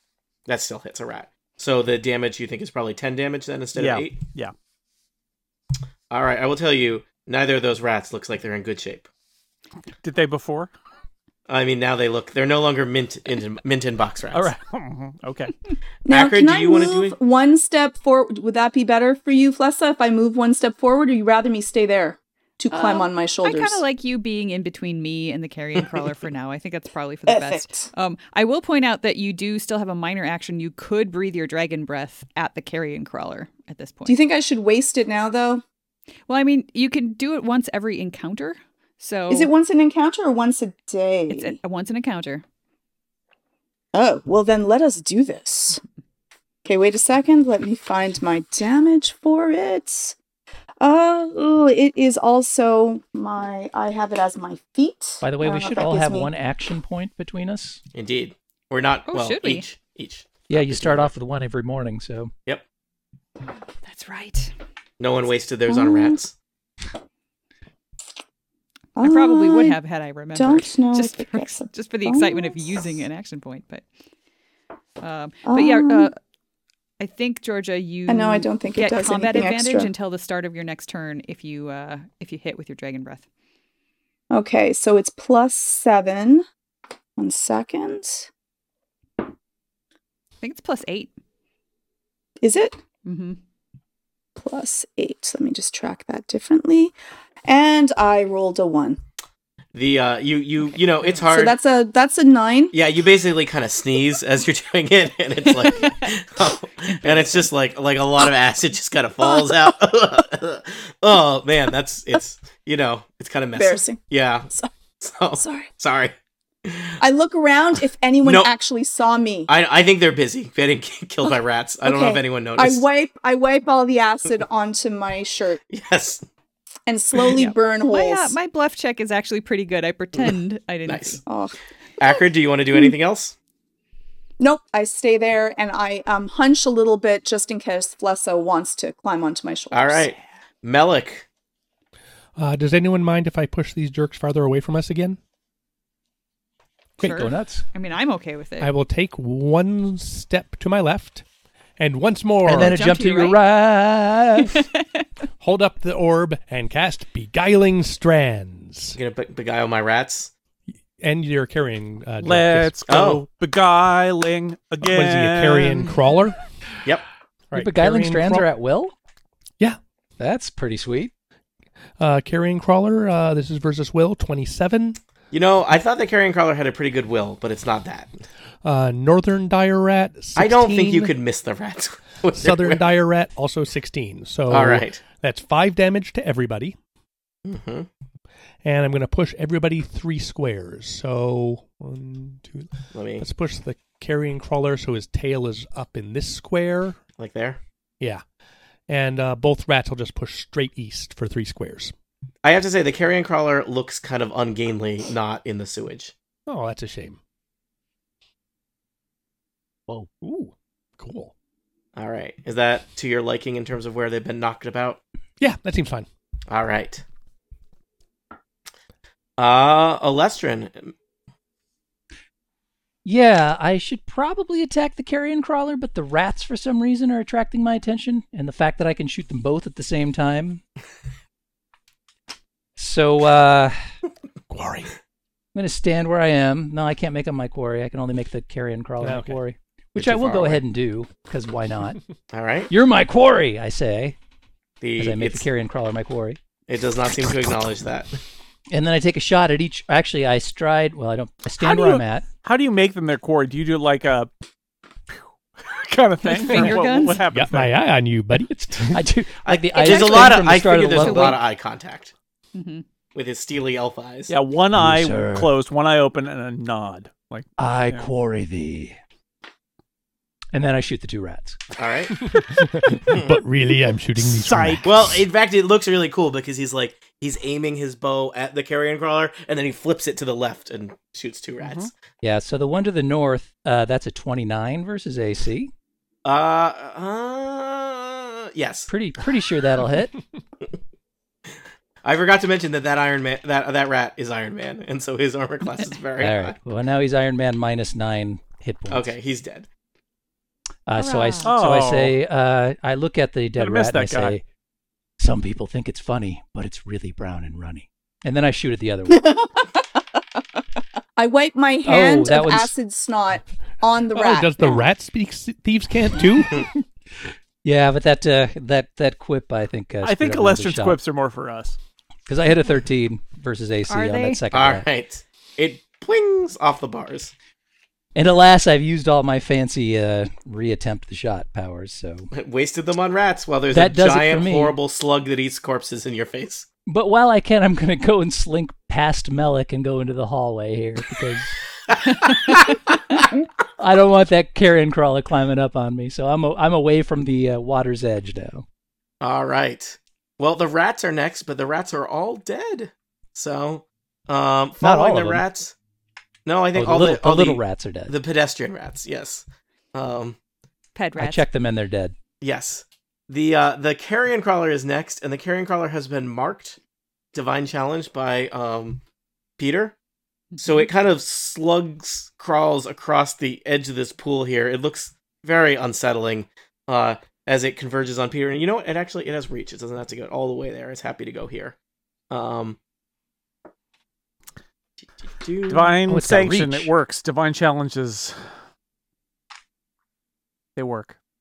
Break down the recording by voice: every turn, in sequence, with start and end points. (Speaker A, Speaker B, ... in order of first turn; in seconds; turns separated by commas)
Speaker A: 0.5-4.2, Speaker B: 3.8-4.5, Speaker A: 6.1-9.1, Speaker B: 10.0-10.7, Speaker A: 11.5-14.5, Speaker B: 14.3-15.6, Speaker C: 16.1-23.8, Speaker A: 16.1-17.2, Speaker D: 22.7-34.2, Speaker C: 27.3-27.9, Speaker C: 34.1-35.6, Speaker D: 36.3-39.5, Speaker C: 39.3-41.6, Speaker D: 41.3-42.4, Speaker C: 43.9-45.8, Speaker C: 46.6-50.2, Speaker C: 50.8-56.3, Speaker E: 55.2-57.8, Speaker A: 57.9-61.1, Speaker D: 59.1-59.6, Speaker E: 60.5-62.3, Speaker D: 63.9-64.5, Speaker A: 65.0-66.3, Speaker C: 65.7-66.2, Speaker C: 69.0-69.8, Speaker D: 69.0-73.8, Speaker C: 70.3-73.1, Speaker D: 75.0-76.1, Speaker C: 75.5-76.1, Speaker D: 77.0-83.3, Speaker C: 78.1-79.9, Speaker C: 84.3-86.5, Speaker C: 87.2-88.3, Speaker D: 90.4-91.1, Speaker C: 92.4-92.8, Speaker D: 93.0-93.4, Speaker C: 94.4-99.0, Speaker A: 99.7-101.6, Speaker C: 101.2-102.8, Speaker A: 102.7-116.2, Speaker C: 113.6-114.7, Speaker C: 115.4-115.7, Speaker A: 116.7-117.0, Speaker C: 117.0-119.5, Speaker A: 118.2-118.5, Speaker A: 119.5-122.8, Speaker C: 121.8-125.6, Speaker A: 125.7-126.2, Speaker C: 126.9-128.4, Speaker D: 127.4-131.2, Speaker A: 130.9-131.2, Speaker C: 131.3-131.6, Speaker A: 132.0-133.3, Speaker C: 134.4-140.1, Speaker A: 139.7-141.3, Speaker F: 142.4-145.2, Speaker D: 147.0-148.7, Speaker E: 147.0-147.7, Speaker F: 148.6-151.2, Speaker F: 151.8-152.8, Speaker E: 152.4-154.6, Speaker D: 152.5-153.4, Speaker D: 154.5-155.0, Speaker F: 155.4-159.0, Speaker A: 158.9-160.3, Speaker F: 161.0-162.8, Speaker B: 162.2-165.9, Speaker A: 162.9-163.2, Speaker F: 164.8-166.4, Speaker F: 167.5-168.5, Speaker E: 167.5-168.9, Speaker E: 170.2-171.1, Speaker F: 172.0-175.0, Speaker A: 175.3-178.2, Speaker F: 178.6-181.1, Speaker A: 180.4-182.8, Speaker F: 182.3-186.8, Speaker A: 184.5-185.1, Speaker A: 187.4-187.9, Speaker F: 188.6-197.0, Speaker A: 192.9-193.3, Speaker A: 197.2-197.6, Speaker F: 198.9-201.9, Speaker A: 202.4-206.1, Speaker F: 206.5-207.2, Speaker F: 209.9-211.3, Speaker A: 212.0-215.0, Speaker F: 215.4-216.1, Speaker A: 216.5-217.0, Speaker A: 219.4-220.9, Speaker E: 223.1-230.6, Speaker E: 232.8-233.8, Speaker F: 234.5-234.9, Speaker E: 235.5-242.0, Speaker F: 239.0-239.4, Speaker F: 240.0-240.6, Speaker A: 242.3-242.7, Speaker E: 242.7-244.2, Speaker A: 244.8-245.5, Speaker E: 245.0-246.4, Speaker A: 246.7-248.2, Speaker E: 248.7-252.3, Speaker B: 251.6-254.3, Speaker B: 255.6-257.8, Speaker D: 256.2-257.2, Speaker F: 257.3-259.0, Speaker E: 258.4-261.4, Speaker A: 259.4-262.1, Speaker D: 259.7-261.4, Speaker D: 262.5-262.8, Speaker A: 263.1-264.3, Speaker B: 264.3-268.1, Speaker E: 264.8-265.5, Speaker E: 267.6-269.0, Speaker E: 270.5-271.6, Speaker A: 271.8-272.2, Speaker F: 272.2-275.2, Speaker A: 273.1-273.4, Speaker B: 274.2-274.8, Speaker A: 274.8-281.9, Speaker B: 281.6-281.9, Speaker E: 282.2-285.7, Speaker A: 286.2-288.9, Speaker E: 288.9-290.1, Speaker A: 292.0-296.6, Speaker E: 296.2-299.1, Speaker A: 298.9-299.7, Speaker E: 300.9-304.4, Speaker D: 301.0-301.6, Speaker B: 301.4-302.2, Speaker B: 303.6-304.4, Speaker E: 305.2-309.2, Speaker C: 309.1-309.8, Speaker C: 311.2-314.8, Speaker E: 311.8-312.8, Speaker F: 314.1-316.7, Speaker E: 317.6-321.0, Speaker B: 320.0-321.8, Speaker E: 322.3-324.9, Speaker D: 323.9-324.4, Speaker A: 324.5-327.3, Speaker E: 328.1-332.3, Speaker A: 332.3-336.7, Speaker E: 333.7-334.8, Speaker E: 336.9-341.6, Speaker E: 343.8-348.7, Speaker A: 349.2-355.7, Speaker E: 354.8-355.4, Speaker A: 356.5-360.4, Speaker E: 356.8-358.1, Speaker D: 360.9-361.4, Speaker E: 361.2-362.1, Speaker A: 362.4-366.8, Speaker A: 367.3-369.0, Speaker A: 369.6-370.0, Speaker D: 370.5-370.9, Speaker A: 370.6-381.8, Speaker A: 382.3-382.8, Speaker A: 385.2-386.0, Speaker B: 385.7-388.4, Speaker E: 386.1-386.9, Speaker B: 390.8-391.2